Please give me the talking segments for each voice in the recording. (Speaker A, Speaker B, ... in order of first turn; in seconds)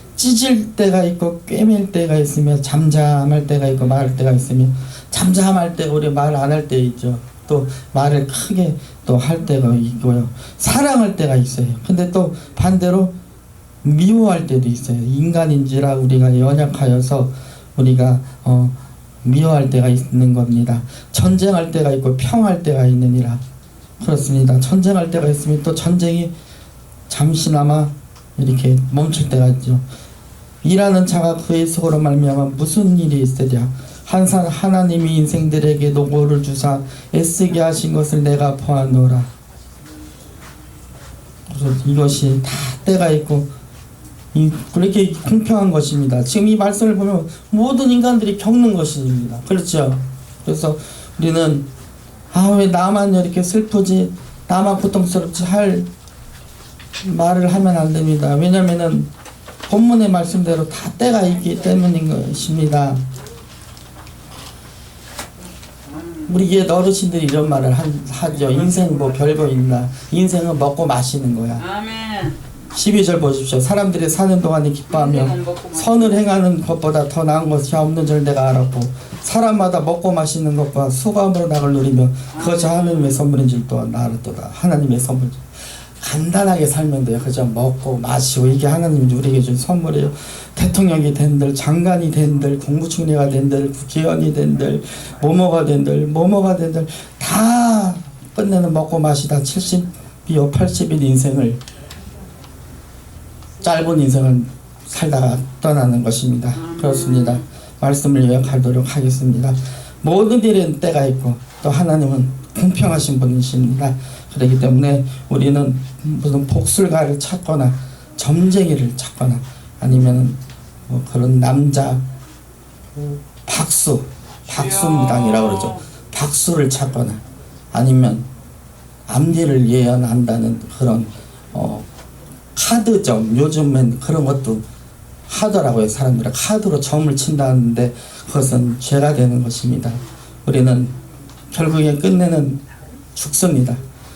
Speaker A: 0.1-13.1, 13.8-23.4, 24.0-26.3, 27.1-29.8, 30.6-39.3, 41.5-43.5, 44.3-51.7, 52.3-55.9, 57.0-59.1, 59.7-63.0, 66.3-71.7, 72.7-85.4, 86.0-101.6, 103.6-122.0, 122.9-128.3, 129.1-131.9, 132.6-134.6, 135.3-140.9, 141.5-143.8
Speaker B: 71.6-72.4, 75.0-76.0, 106.6-107.4, 124.9-125.8